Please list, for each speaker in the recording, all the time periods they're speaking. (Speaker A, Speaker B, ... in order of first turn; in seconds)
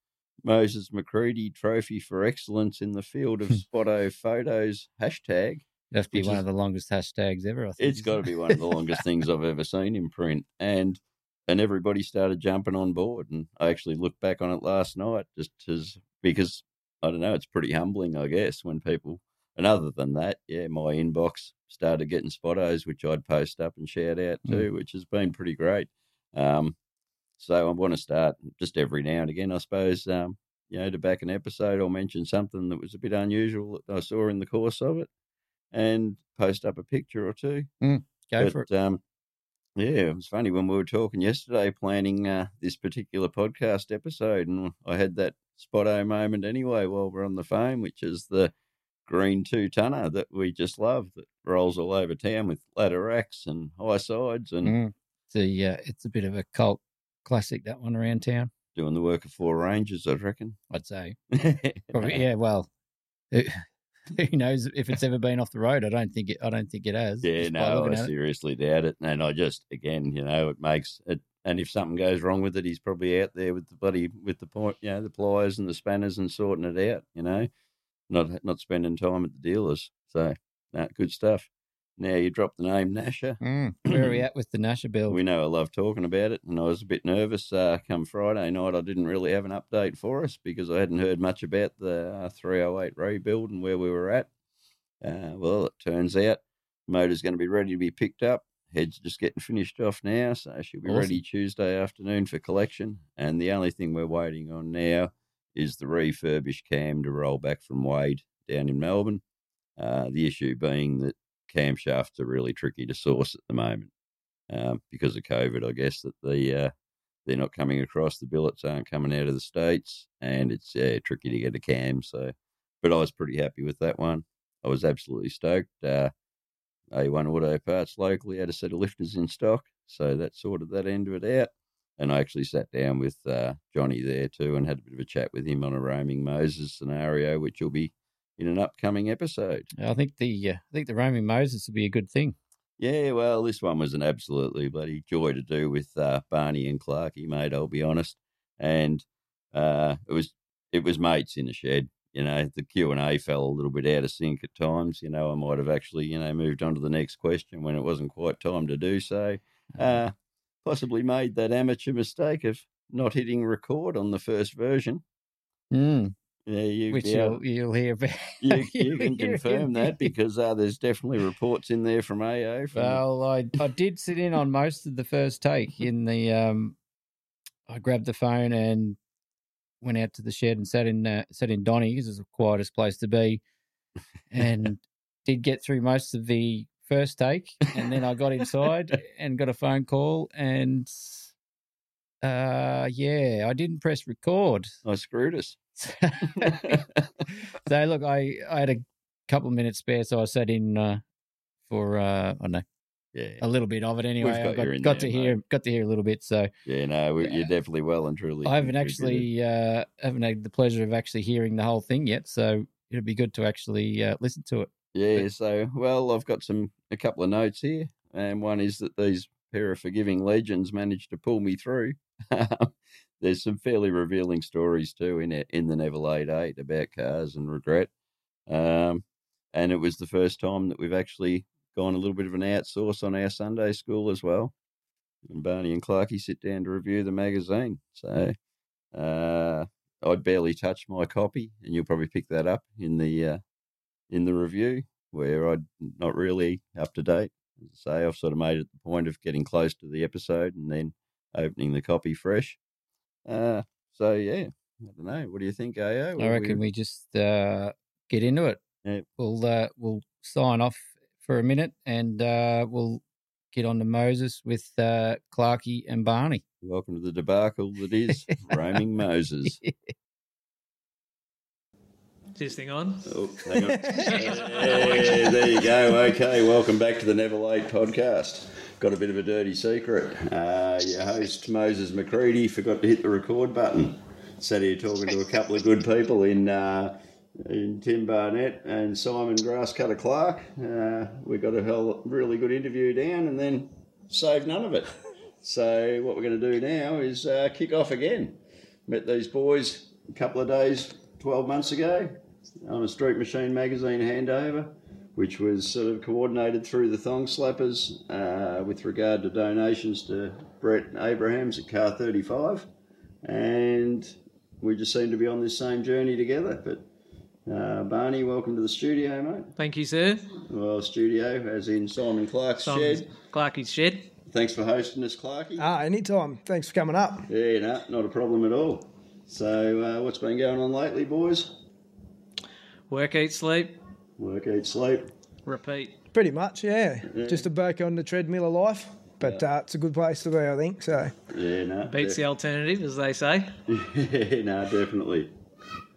Speaker A: 0.4-6.4, 7.8-26.7, 27.4-35.1, 35.7-37.7, 38.4-39.0, 39.8-48.5, 49.0-54.7, 58.7-60.6, 61.3-62.2, 67.2-77.5, 78.1-84.2, 85.1-94.3, 95.0-109.2, 109.8-113.9, 114.5-116.7, 117.2-126.1, 126.9-139.7, 142.8-165.0, 166.4-167.4, 168.4-173.0, 194.8-195.6, 196.3-197.1, 203.1-203.4, 204.2-205.4, 206.7-209.3, 214.9-227.9, 228.5-234.5, 235.2-238.3, 238.9-243.4, 244.1-252.6, 253.3-256.6, 266.6-269.6, 273.1-312.7, 313.2-316.8, 317.4-319.5, 320.4-323.1, 324.3-325.6, 327.3-331.6, 334.2-335.1, 337.1-337.5, 341.3-342.2, 343.7-345.3
Speaker B: 5.9-8.7, 37.8-38.6, 54.6-58.5, 60.7-61.1, 61.9-62.7, 63.3-68.1, 83.4-85.2, 100.8-101.2, 139.8-142.3, 165.7-166.1, 166.9-170.1, 172.7-176.8, 177.7-179.0, 179.8-183.4, 184.3-191.3, 192.2-194.7, 195.8-196.8, 197.6-201.0, 201.7-202.6, 203.4-206.5, 207.2-207.4, 208.4-215.2, 256.2-258.6, 259.2-266.4
Speaker C: 272.4-273.1, 274.1-275.3, 319.6-320.3, 322.6-324.1, 332.9-333.8, 335.4-336.0, 341.8-343.5
Speaker D: 325.6-327.3, 336.1-341.1